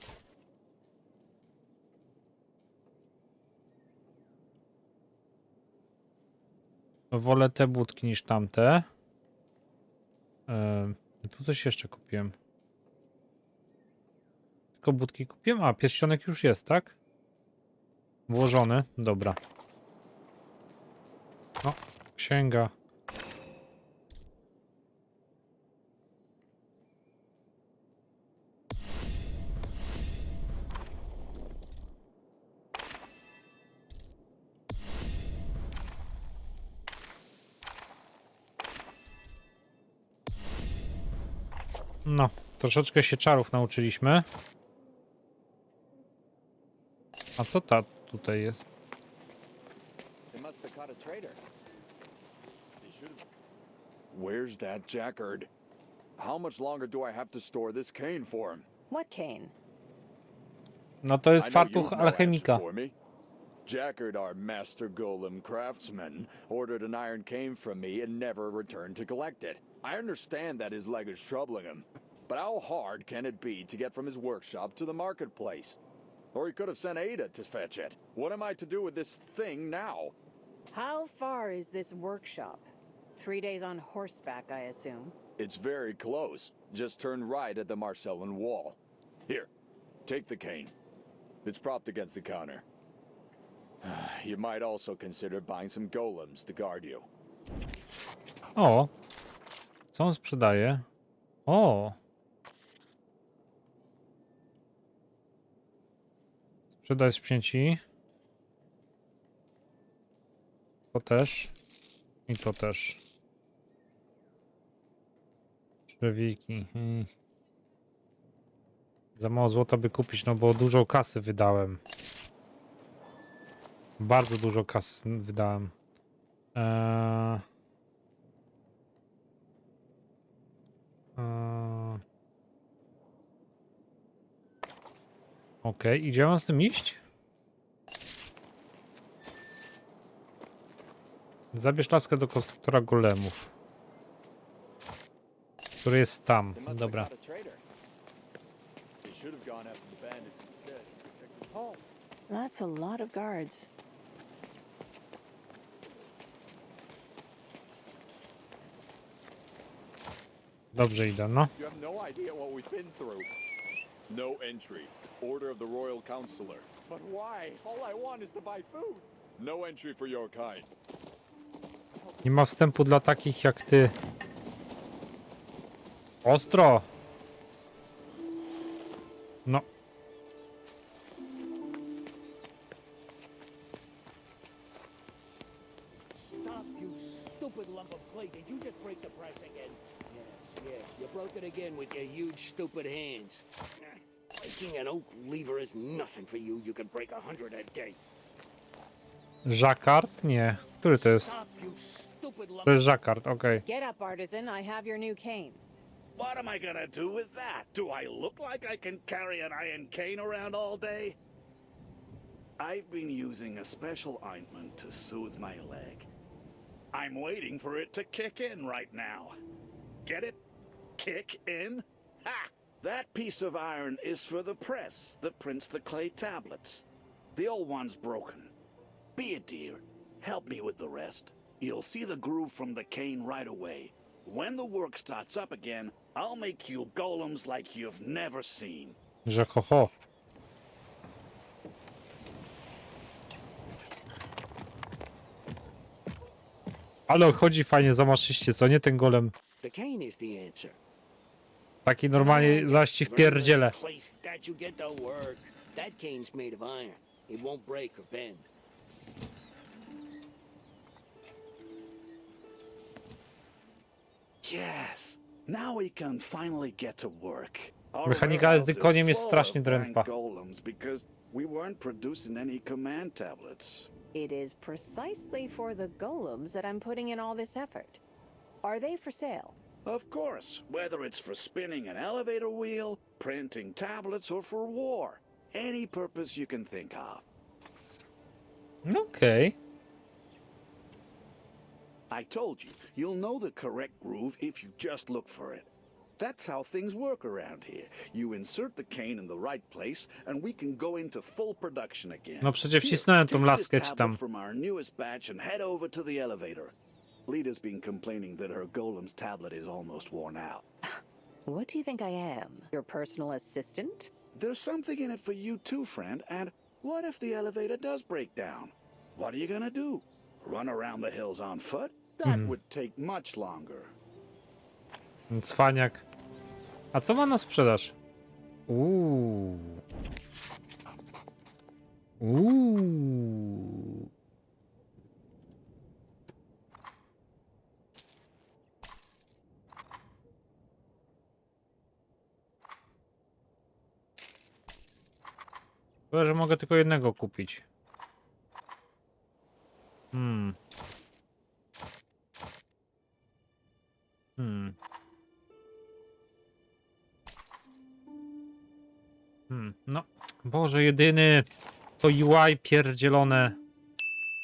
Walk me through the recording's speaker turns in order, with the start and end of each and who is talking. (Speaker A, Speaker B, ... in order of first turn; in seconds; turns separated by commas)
Speaker A: 7.1-8.9, Speaker A: 10.5-12.3, Speaker A: 14.8-16.9, Speaker A: 18.3-19.4, Speaker A: 21.6-22.7, Speaker A: 42.0-44.2, Speaker A: 47.4-48.6, Speaker B: 50.3-51.4, Speaker B: 52.8-53.2, Speaker B: 54.1-55.5, Speaker B: 56.2-58.7, Speaker C: 58.9-59.5, Speaker A: 61.0-62.6, Speaker B: 61.4-62.9, Speaker B: 63.6-75.8, Speaker B: 76.3-80.1, Speaker C: 80.7-85.2, Speaker B: 85.4-89.5, Speaker B: 90.0-90.7, Speaker B: 91.4-92.6, Speaker B: 93.8-97.1, Speaker A: 98.5-98.9, Speaker A: 99.9-100.8, Speaker A: 101.5-102.0, Speaker A: 106.8-107.8, Speaker A: 110.9-111.5, Speaker A: 112.3-113.0, Speaker A: 115.9-117.1, Speaker A: 119.2-121.8, Speaker A: 124.0-125.7, Speaker A: 126.5-127.4, Speaker A: 131.2-132.0, Speaker A: 135.6-137.0, Speaker A: 141.5-143.5, Speaker A: 145.8-147.1, Speaker B: 146.5-147.6, Speaker B: 149.0-151.9, Speaker C: 152.3-153.7, Speaker A: 160.7-161.5, Speaker B: 161.6-163.3, Speaker B: 164.1-170.7, Speaker A: 172.2-173.9, Speaker A: 176.2-176.8, Speaker D: 186.1-193.5, Speaker D: 194.3-198.0, Speaker A: 199.4-201.3, Speaker D: 201.0-202.9, Speaker A: 202.6-203.6, Speaker C: 203.6-205.6, Speaker E: 206.2-211.2, Speaker E: 212.6-216.1, Speaker E: 216.9-219.3, Speaker E: 220.0-220.4, Speaker E: 221.0-228.5, Speaker E: 229.2-239.0, Speaker A: 239.2-239.9, Speaker A: 247.1-249.3, Speaker D: 249.6-250.8, Speaker A: 251.8-253.7, Speaker C: 252.2-252.8, Speaker D: 252.2-258.5, Speaker E: 264.4-273.9, Speaker A: 268.1-270.1, Speaker C: 274.1-278.0, Speaker C: 278.6-279.6, Speaker E: 279.8-287.2, Speaker A: 288.8-289.6, Speaker E: 292.1-306.7, Speaker A: 302.4-304.2, Speaker E: 307.3-310.6, Speaker C: 310.9-314.1, Speaker E: 314.3-323.9, Speaker A: 322.2-322.5, Speaker A: 325.3-326.0, Speaker A: 326.9-327.9, Speaker A: 328.7-329.8, Speaker A: 332.2-334.1, Speaker A: 346.1-347.6, Speaker A: 350.1-350.6, Speaker A: 354.4-354.8, Speaker A: 359.5-361.4, Speaker A: 362.0-363.6